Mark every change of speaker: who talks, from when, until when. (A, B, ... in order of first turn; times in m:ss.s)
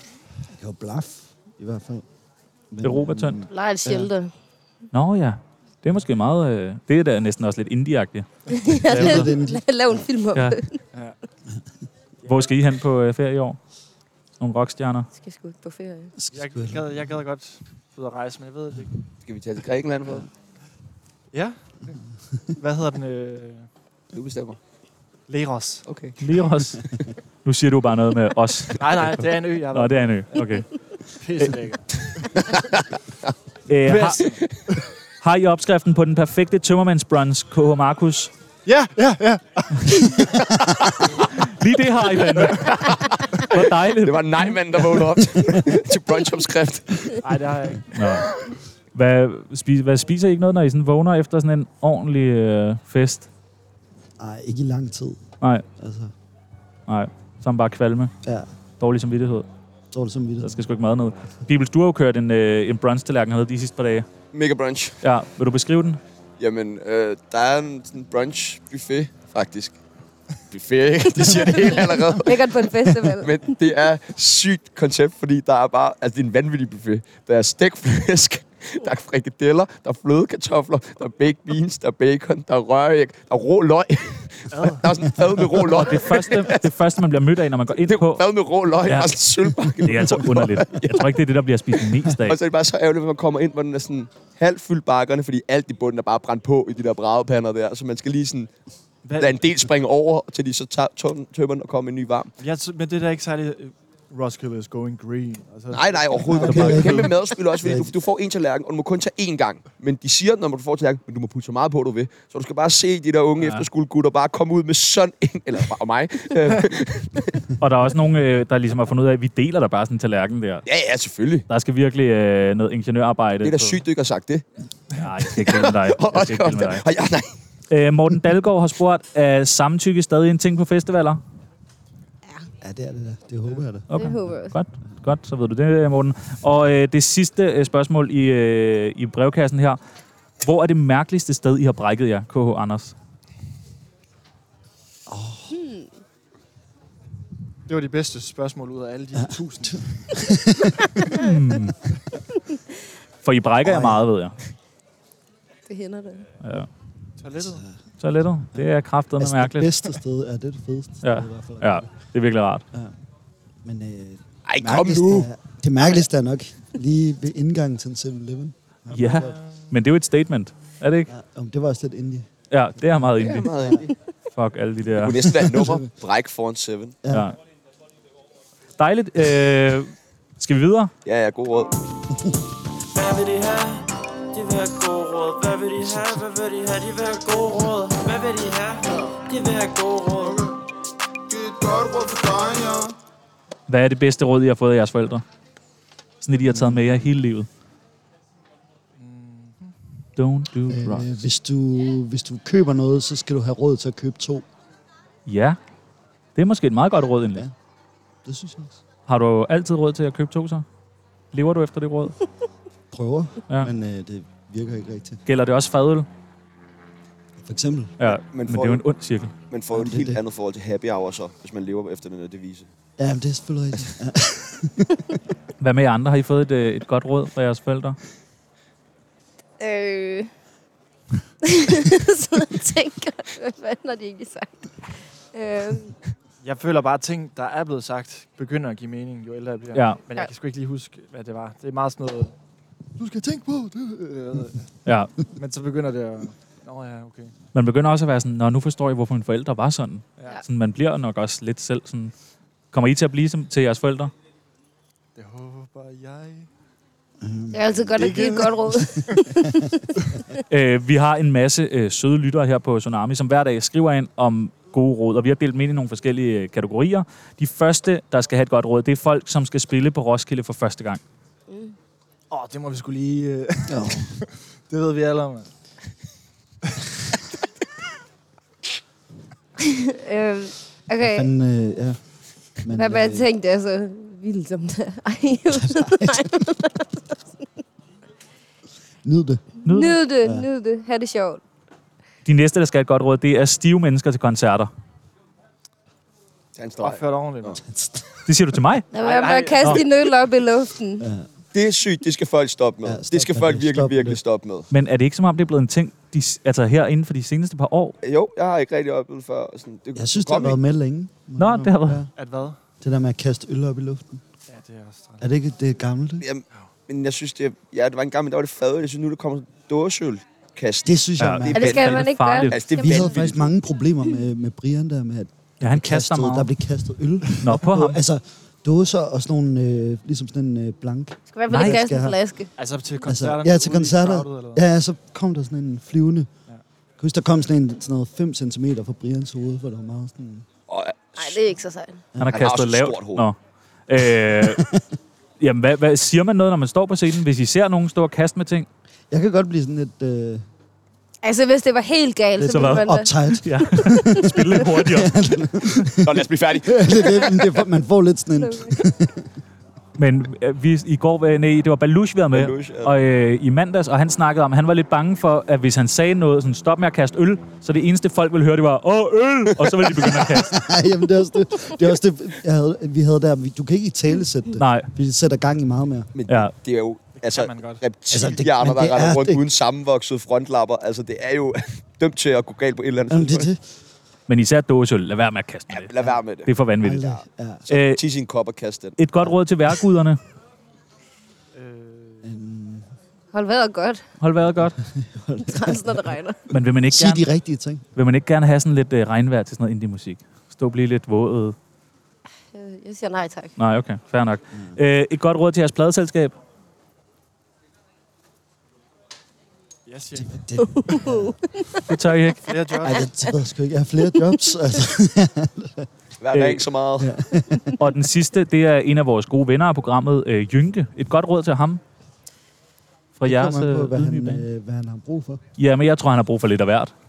0:00.6-0:02.0 A
0:02.7-0:04.1 A
0:02.8-0:03.4 B
0:03.5-0:04.3 C
0:04.9-0:09.3 B
0:08.5-0:10.8 C
0:08.8-0:10.0 A
0:10.9-0:11.2 D
0:12.3-0:13.6 B
0:14.4-0:15.1 B
0:15.2-0:16.1 C
0:16.2-0:17.1 A
0:16.3-0:18.9 D
0:19.2-0:20.3 E
0:21.3-0:22.0 D
0:22.6-0:23.7 D
0:24.1-0:24.6 E
0:25.3-0:25.8 D
0:25.9-0:26.2 E
0:26.2-0:26.9 B
0:27.4-0:30.9 B
0:28.8-0:30.5 D
0:31.2-0:31.8 D
0:32.3-0:33.3 E
0:33.7-0:34.5 B
0:33.9-0:34.8 D
0:35.2-0:38.3 B
0:38.6-0:40.5 D
0:41.4-0:45.1 B
0:42.9-0:47.3 E
0:47.2-0:48.1 D
0:47.9-0:48.4 B
0:48.9-0:53.3 B
0:54.2-0:56.1 A
0:56.9-0:58.1 B
0:58.2-0:58.5 A
0:58.8-0:59.5 B
0:59.9-1:00.6 A
1:00.4-1:04.1 B
1:04.3-1:05.0 E
1:05.0-1:06.0 B
1:06.4-1:09.8 E
1:10.5-1:26.7 E
1:11.4-1:13.4 C
1:24.5-1:24.9 D
1:25.5-1:28.2 B
1:27.7-1:31.1 E
1:28.8-1:32.4 B
1:32.2-1:38.5 E
1:39.0-1:39.5 D
1:39.2-1:42.3 E
1:42.4-1:46.8 D
1:45.7-1:57.5 E
1:46.3-1:47.9 A
1:46.5-1:47.1 B
1:53.4-1:53.7 B
1:57.6-2:00.7 B
2:00.7-2:01.5 E
2:01.5-2:03.8 B
2:03.4-2:04.4 E
2:04.9-2:06.9 B
2:05.3-2:07.3 E
2:07.7-2:11.2 B
2:12.6-2:14.3 A
2:13.9-2:19.8 B
2:13.9-2:14.6 C
2:20.4-2:22.9 B
2:25.1-2:25.5 A
2:25.5-2:25.9 C
2:27.7-2:30.2 D
2:29.2-2:31.0 A
2:31.2-2:31.8 B
2:33.2-2:34.4 B
2:33.6-2:34.1 A
2:35.7-2:36.3 C
2:36.4-2:36.7 B
2:37.2-2:37.6 D
2:37.4-2:37.8 A
2:38.0-2:40.0 B
2:39.2-2:41.9 A
2:41.0-2:42.6 B
2:42.7-2:43.0 A
2:43.6-2:49.4 A
2:44.5-2:45.3 E
2:48.9-2:51.1 B
2:51.1-2:52.3 A
2:52.5-2:53.8 B
2:53.2-2:53.9 E
2:53.6-2:53.8 A
2:54.4-2:55.2 B
2:55.0-2:57.0 E
2:55.3-2:55.9 A
2:57.0-2:57.3 A
2:57.1-2:57.4 B
2:58.8-3:00.9 B
3:01.0-3:01.8 E
3:02.9-3:10.4 F
3:10.2-3:10.5 G
3:11.3-3:12.9 G
3:13.7-3:15.2 B
3:16.2-3:17.5 B
3:16.4-3:16.9 A
3:19.0-3:19.8 D
3:20.2-3:21.2 B
3:20.7-3:24.5 A
3:25.3-3:25.6 B
3:26.4-3:27.5 B
3:28.2-3:28.8 A
3:29.1-3:30.6 B
3:31.3-3:32.2 B
3:32.9-3:35.2 A
3:35.3-3:36.1 B
3:37.4-3:38.0 A
3:38.0-3:39.3 B
3:38.1-3:38.8 E
3:39.5-3:42.7 E
3:39.7-3:40.2 A
3:43.0-3:45.2 A
3:45.6-3:48.0 B
3:49.6-3:50.3 C
3:51.4-3:56.0 C
3:56.4-4:02.4 D
3:59.7-4:00.0 B
4:03.0-4:04.5 A
4:04.1-4:04.6 D
4:04.9-4:05.1 B
4:05.4-4:07.3 D
4:07.5-4:12.1 B
4:12.7-4:14.1 B
4:15.2-4:16.5 D
4:17.2-4:19.7 A
4:17.5-4:20.4 C
4:18.0-4:19.0 D
4:20.5-4:31.0 B
4:31.5-4:31.8 C
4:32.3-4:35.5 D
4:33.7-4:34.1 A
4:39.6-4:41.3 C
4:41.0-4:42.0 A
4:42.6-4:43.3 A
4:42.7-4:46.9 C
4:45.5-4:46.3 A
4:49.0-4:49.5 A
4:49.6-4:50.0 B
4:49.6-4:51.4 C
4:50.2-4:50.5 A
4:52.2-4:54.7 B
4:56.6-4:57.6 E
4:56.8-4:57.6 D
4:57.6-4:58.3 A
4:58.3-4:58.9 B
4:58.9-4:59.9 D
4:58.9-5:01.1 C
5:01.0-5:01.3 A
5:01.5-5:04.7 E
5:02.8-5:04.2 A
5:04.7-5:08.0 B
5:08.0-5:10.6 E
5:10.0-5:12.1 A
5:11.4-5:12.0 B
5:12.2-5:12.6 D
5:12.8-5:14.2 A
5:14.5-5:15.3 D
5:15.2-5:16.3 A
5:16.2-5:23.6 E
5:20.8-5:22.0 A
5:21.2-5:22.6 B
5:21.5-5:23.2 C
5:22.8-5:32.2 A
5:25.6-5:26.5 B
5:27.4-5:28.0 B
5:31.3-5:32.5 C
5:31.5-5:31.8 B
5:32.6-5:34.6 D
5:33.0-5:36.3 A
5:37.0-5:40.5 A
5:40.7-5:41.4 E
5:41.2-5:42.0 C
5:42.1-5:42.5 A
5:42.2-5:43.4 B
5:42.3-5:43.3 E
5:43.9-5:44.6 B
5:44.4-5:44.9 A
5:45.4-5:48.7 B
5:49.1-5:50.5 A
5:51.2-5:53.1 C
5:52.4-5:59.3 A
5:52.5-5:55.7 B
5:53.7-5:54.2 C
5:56.0-5:57.5 E
5:58.4-5:58.8 C
6:00.0-6:10.6 B
6:02.3-6:03.0 E
6:10.1-6:16.1 A
6:14.6-6:14.9 B
6:16.1-6:23.5 E
6:16.3-6:16.5 B
6:17.2-6:17.8 D
6:18.1-6:19.4 A
6:23.1-6:23.7 A
6:24.3-6:25.9 B
6:25.7-6:26.5 E
6:26.4-6:27.2 B
6:26.8-6:27.7 A
6:27.7-6:28.0 B
6:27.7-6:29.0 E
6:29.0-6:30.2 B
6:31.5-6:32.3 D
6:32.2-6:32.9 A
6:33.3-6:34.0 C
6:34.2-6:34.8 B
6:34.8-6:36.1 A
6:35.4-6:36.4 C
6:36.5-6:37.3 B
6:36.9-6:37.8 A
6:38.0-6:41.6 B
6:42.5-6:43.5 C
6:43.6-6:46.3 B
6:49.9-6:50.9 D
6:50.2-6:51.4 A
6:50.6-6:51.9 C
6:51.9-6:52.5 B
6:52.5-6:53.1 D
6:52.8-6:55.9 A
6:56.2-6:57.1 E
6:56.3-6:56.7 B
6:57.0-6:57.8 A
6:57.8-7:01.8 B
7:03.2-7:04.4 B
7:03.2-7:05.4 A
7:05.6-7:06.9 B